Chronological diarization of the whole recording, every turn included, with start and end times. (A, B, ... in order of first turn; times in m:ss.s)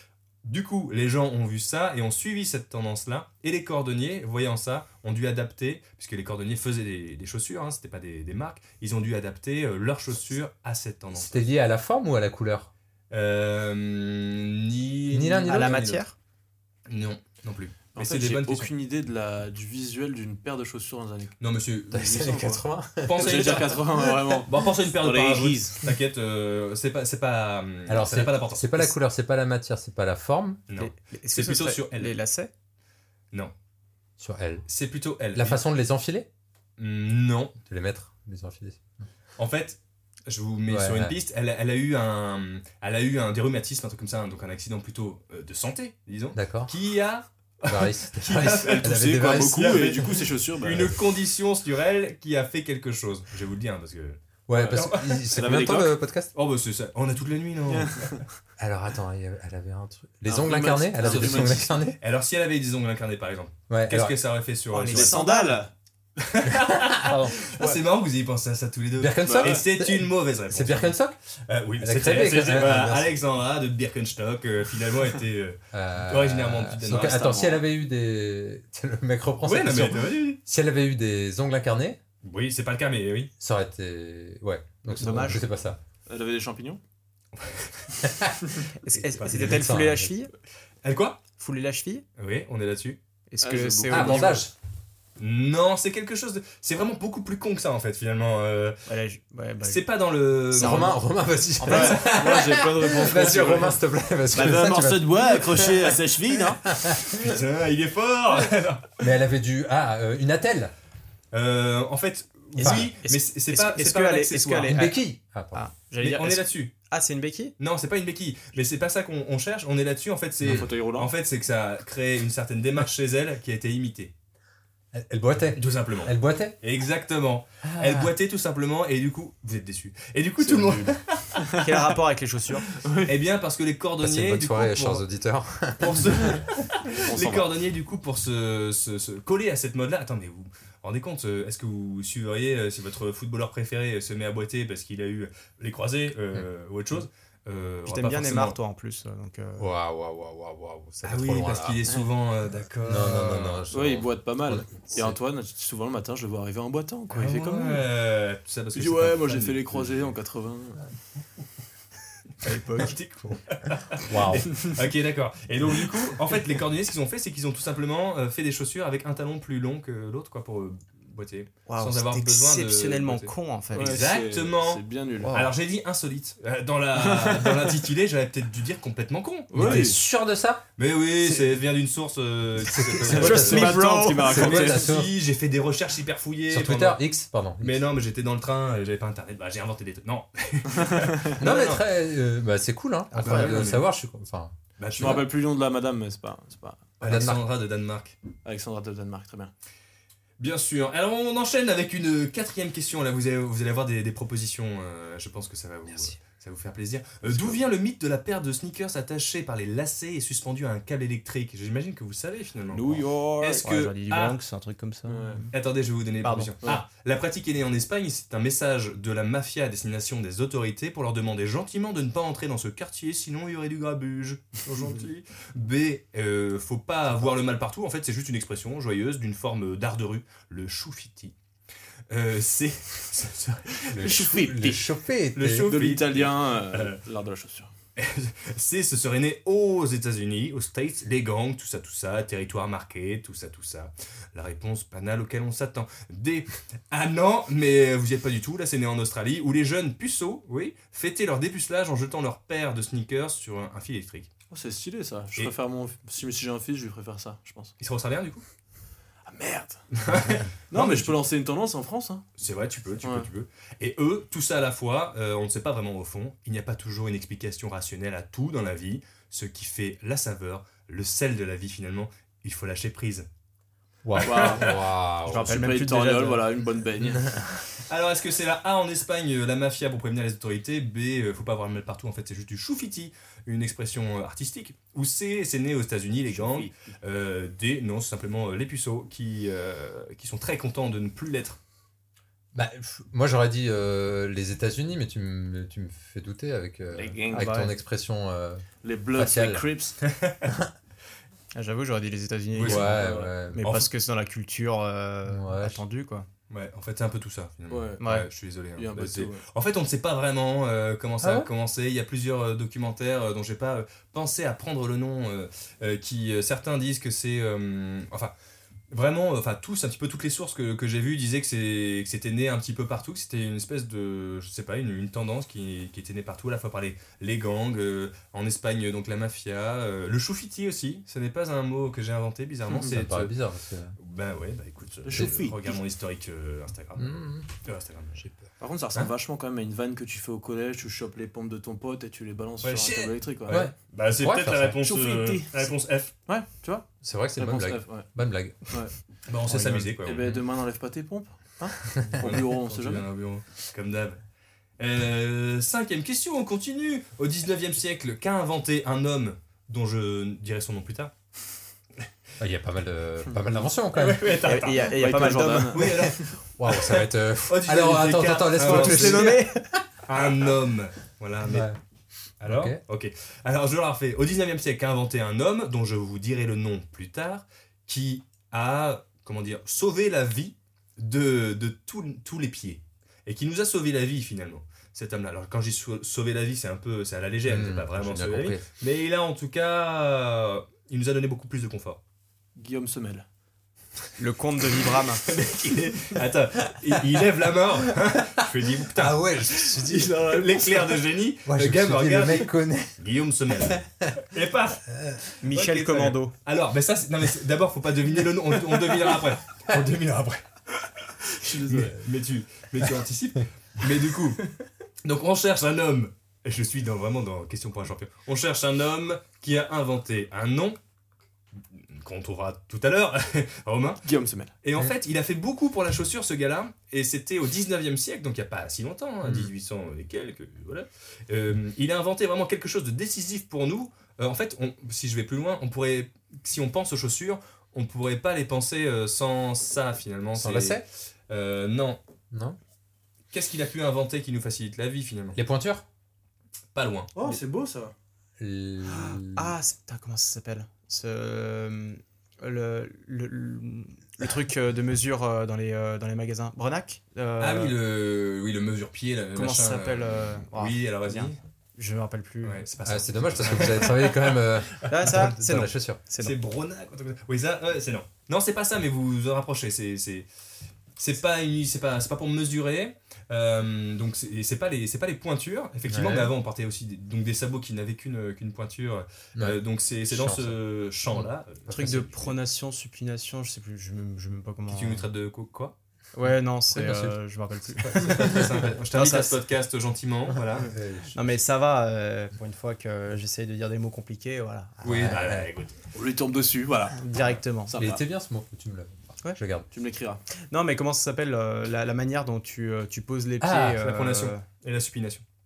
0:00.4-0:11.4 A
0:11.1-0:12.7 B
0:13.1-0:16.0 A
0:15.1-0:16.0 B
0:15.3-0:16.1 C
0:16.9-0:18.7 A
0:17.9-0:21.4 D
0:21.4-0:22.2 A
0:21.9-0:23.5 B
0:22.1-0:25.8 D
0:23.0-0:23.8 A
0:24.4-0:28.9 A
0:27.9-0:30.6 B
0:30.7-0:32.1 A
0:30.8-0:32.5 C
0:34.2-0:34.7 B
0:34.7-0:35.6 A
0:35.3-0:36.3 B
0:36.8-0:37.5 A
0:37.7-0:38.8 B
0:39.4-0:55.2 A
0:40.7-0:41.2 B
0:46.3-0:46.7 B
0:47.6-0:49.8 B
0:48.6-0:51.0 D
0:54.5-0:56.3 B
0:54.9-0:55.9 D
0:56.3-0:58.2 A
0:57.7-0:58.2 D
0:58.6-1:02.0 B
1:00.2-1:01.7 D
1:01.0-1:05.2 A
1:03.7-1:04.2 B
1:04.7-1:05.6 C
1:04.8-1:05.7 D
1:06.3-1:17.5 A
1:06.8-1:07.1 B
1:07.5-1:07.8 C
1:09.0-1:11.2 B
1:09.2-1:09.6 D
1:11.8-1:13.1 B
1:15.7-1:22.0 B
1:16.9-1:17.6 D
1:19.4-1:20.4 A
1:22.2-1:23.3 A
1:23.4-1:25.8 B
1:24.9-1:25.5 C
1:26.0-1:26.8 D
1:27.3-1:27.9 A
1:28.0-1:28.3 B
1:28.8-1:30.3 C
1:29.0-1:29.7 A
1:29.2-1:30.1 B
1:30.8-1:31.2 A
1:31.4-1:32.0 C
1:32.2-1:33.0 A
1:33.3-1:34.4 C
1:33.4-1:34.4 D
1:33.9-1:34.5 B
1:35.2-1:38.8 A
1:38.9-1:41.0 C
1:39.6-1:41.0 A
1:40.6-1:45.9 B
1:41.6-1:42.2 C
1:41.6-1:46.7 D
1:44.4-1:44.9 C
1:46.7-1:47.2 B
1:47.1-1:49.0 A
1:49.0-1:50.7 B
1:51.3-1:54.8 A
1:52.6-1:57.5 C
1:52.6-1:52.9 B
1:54.7-1:55.6 B
1:56.0-1:56.7 A
1:57.6-2:04.1 A
2:00.4-2:00.7 B
2:00.4-2:01.1 D
2:04.9-2:06.6 B
2:05.6-2:11.4 A
2:07.6-2:08.1 B
2:10.4-2:11.0 D
2:11.6-2:12.7 C
2:12.8-2:13.2 D
2:13.0-2:15.0 A
2:14.0-2:16.4 B
2:15.8-2:28.6 A
2:17.1-2:17.5 D
2:27.8-2:29.7 C
2:29.6-2:31.8 B
2:31.0-2:33.7 A
2:32.8-2:35.2 B
2:33.7-2:37.8 D
2:37.1-2:40.1 A
2:38.7-2:40.9 D
2:42.4-2:43.4 C
2:42.8-2:59.9 A
2:44.0-2:44.5 B
2:51.7-2:54.0 C
2:53.7-2:55.4 D
2:55.2-2:55.5 C
2:57.0-2:57.7 D
2:59.5-3:00.0 D
2:59.5-3:00.6 B
3:00.8-3:03.6 A
3:02.6-3:05.1 B
3:03.0-3:04.4 C
3:03.0-3:04.9 D
3:04.3-3:07.0 A
3:06.5-3:07.8 B
3:07.6-3:11.8 A
3:11.4-3:15.1 B
3:13.1-3:13.7 C
3:13.2-3:13.9 A
3:14.8-3:15.3 A
3:14.9-3:17.0 D
3:17.0-3:18.2 A
3:17.0-3:17.4 B
3:18.4-3:19.5 D
3:20.4-3:34.4 A
3:25.9-3:26.2 B
3:32.7-3:33.6 D
3:33.6-3:35.5 C
3:35.0-3:35.5 D
3:35.5-3:51.3 A
3:36.2-3:36.5 C
3:52.1-3:54.7 A
3:53.9-3:55.7 B
3:54.0-3:54.8 D
3:55.3-3:57.0 A
3:55.7-3:57.7 D
3:58.0-4:14.3 A
4:14.5-4:17.8 D
4:17.8-4:18.4 A
4:19.2-4:20.0 D
4:19.9-4:21.2 A
4:20.7-4:22.3 D
4:22.4-4:33.3 A
4:23.0-4:23.3 D
4:34.0-4:35.7 B
4:34.1-4:34.8 A
4:34.2-4:34.7 D
4:35.2-4:36.4 C
4:35.3-4:37.3 D
4:37.8-4:51.6 A
4:46.3-4:46.9 D
4:52.5-4:59.6 B
4:56.9-4:57.5 D
4:57.3-4:57.7 C
4:58.8-5:00.0 D
5:00.0-5:00.4 A
5:00.5-5:00.7 B
5:01.5-5:06.3 C
5:02.5-5:02.9 A
5:02.6-5:03.6 B
5:03.0-5:03.3 D
5:03.6-5:03.9 A
5:05.2-5:05.8 B
5:06.5-5:18.3 A
5:07.7-5:08.0 D
5:08.0-5:08.3 C
5:08.8-5:09.4 D
5:11.2-5:11.5 B
5:18.9-5:33.3 A
5:32.7-5:34.0 B
5:34.0-5:38.2 A
5:35.0-5:35.8 D
5:37.0-5:37.5 B
5:38.2-5:38.4 B
5:38.6-5:43.6 D
5:42.6-5:46.1 A
5:43.5-5:44.8 B
5:44.8-5:48.9 D
5:47.0-5:50.4 B
5:49.2-5:50.2 A
5:50.0-5:53.0 D
5:52.1-5:54.2 A
5:54.8-6:01.1 A
6:02.4-6:04.4 B
6:03.3-6:03.6 D
6:03.9-6:04.9 A
6:04.4-6:06.0 C
6:04.6-6:06.4 D
6:05.7-6:09.4 A
6:06.5-6:09.8 B
6:08.6-6:09.6 C
6:10.0-6:11.7 A
6:11.5-6:11.8 B
6:12.4-6:32.0 A
6:12.4-6:12.8 B
6:27.4-6:28.6 B
6:32.6-6:33.2 D
6:34.2-6:35.2 C
6:35.2-6:50.5 A
6:38.9-6:40.1 B
6:39.8-6:41.0 D
6:41.4-6:43.0 B
6:43.7-6:44.1 B
6:44.9-6:45.2 B
6:45.4-6:46.3 C
6:51.4-6:52.0 D
6:51.4-6:54.5 A
6:55.0-7:00.8 A
7:01.7-7:04.0 A
7:04.0-7:04.5 D
7:04.6-7:22.0 A
7:09.2-7:09.5 B
7:20.3-7:20.8 B
7:22.3-7:22.6 B
7:23.3-7:25.4 A
7:25.3-7:25.8 B
7:26.7-7:27.1 A
7:27.1-7:27.9 D
7:28.4-7:29.5 B
7:28.9-7:37.7 C
7:37.4-7:41.4 A
7:39.3-7:42.6 C
7:42.4-7:44.4 A
7:42.8-7:46.0 B
7:44.9-7:46.4 C
7:46.2-7:50.2 A
7:51.0-8:01.7 A
7:55.9-7:56.3 B
7:59.4-8:02.4 B
8:01.7-8:05.1 C
8:04.7-8:05.7 A
8:06.1-8:09.4 C
8:06.2-8:08.5 B
8:08.0-8:10.7 A
8:10.5-8:11.2 B
8:11.1-8:15.4 C
8:14.8-8:15.8 A
8:14.8-8:15.5 B
8:15.9-8:17.1 D
8:17.0-8:17.8 C
8:17.6-8:18.0 D
8:17.8-8:19.7 B
8:19.7-8:20.2 D
8:20.5-8:24.4 C
8:23.4-8:23.8 B
8:23.8-8:25.2 A